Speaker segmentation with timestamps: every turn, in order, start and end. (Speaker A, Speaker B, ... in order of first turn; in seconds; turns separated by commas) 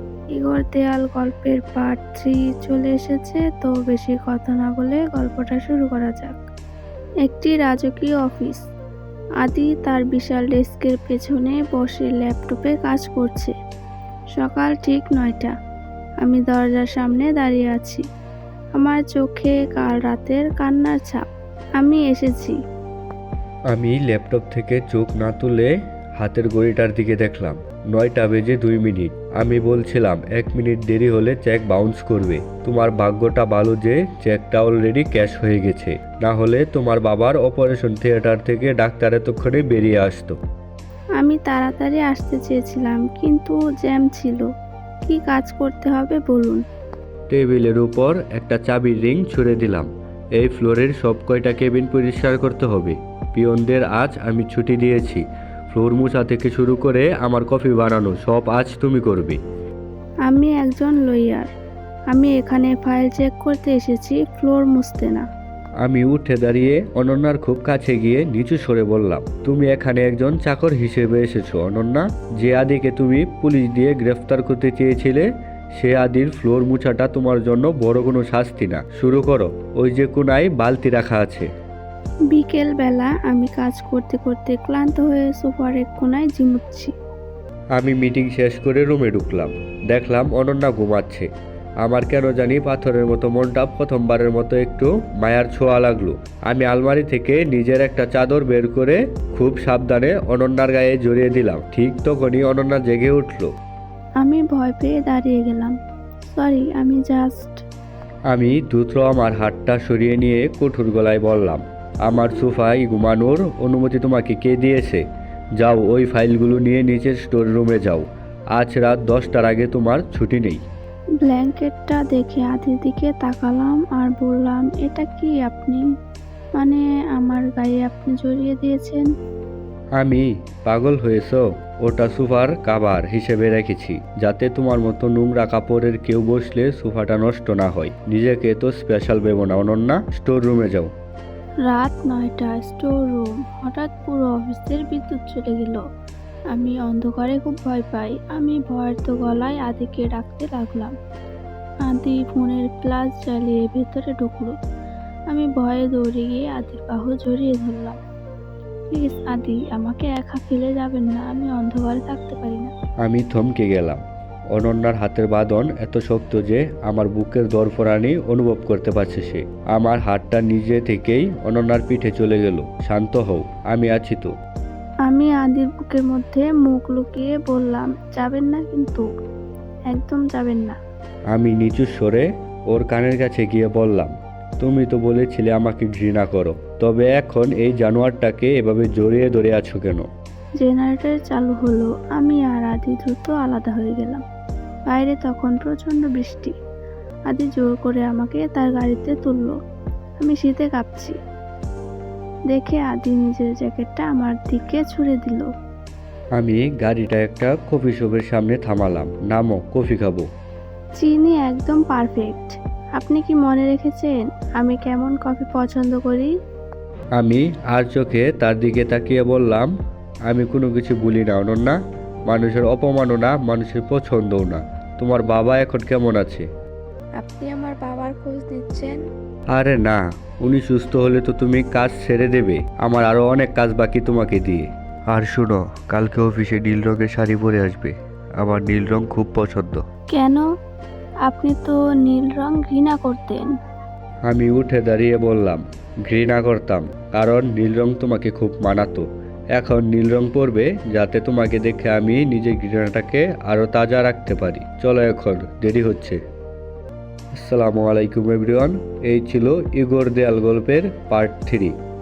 Speaker A: 0.3-6.3, Speaker A: 7.2-8.6, Speaker A: 9.4-13.5, Speaker A: 14.3-15.5, Speaker A: 16.2-18.0, Speaker A: 18.7-21.2, Speaker A: 21.8-22.6, Speaker B: 23.7-40.4, Speaker A: 41.2-44.5, Speaker A: 45.0-46.6, Speaker B: 47.3-59.4, Speaker A: 60.2-61.5, Speaker A: 62.1-65.2, Speaker B: 65.8-75.2, Speaker B: 75.8-81.5, Speaker A: 82.3-86.9, Speaker B: 87.8-91.3, Speaker B: 91.8-103.5, Speaker A: 104.2-105.7, Speaker A: 106.2-107.6, Speaker B: 108.3-115.0, Speaker B: 115.6-120.6, Speaker A: 121.2-125.8, Speaker A: 126.6-129.1, Speaker B: 130.0-140.9, Speaker A: 141.7-145.8, Speaker A: 146.5-150.9, Speaker A: 151.8-154.5, Speaker A: 155.3-158.0, Speaker A: 158.9-162.7, Speaker B: 163.0-164.0, Speaker B: 164.5-174.3, Speaker A: 175.1-179.0, Speaker A: 179.9-180.8, Speaker B: 181.3-190.1, Speaker A: 190.6-194.2, Speaker A: 194.9-196.5, Speaker A: 197.3-199.5, Speaker A: 200.2-201.1, Speaker A: 202.5-205.5, Speaker B: 206.4-210.2, Speaker A: 211.0-216.3, Speaker B: 217.2-219.7, Speaker B: 220.3-221.8, Speaker B: 222.3-226.4, Speaker A: 227.2-229.0, Speaker B: 229.5-239.8, Speaker A: 240.1-240.4, Speaker A: 241.2-243.5, Speaker B: 244.3-249.0, Speaker B: 249.6-256.2, Speaker B: 257.4-261.7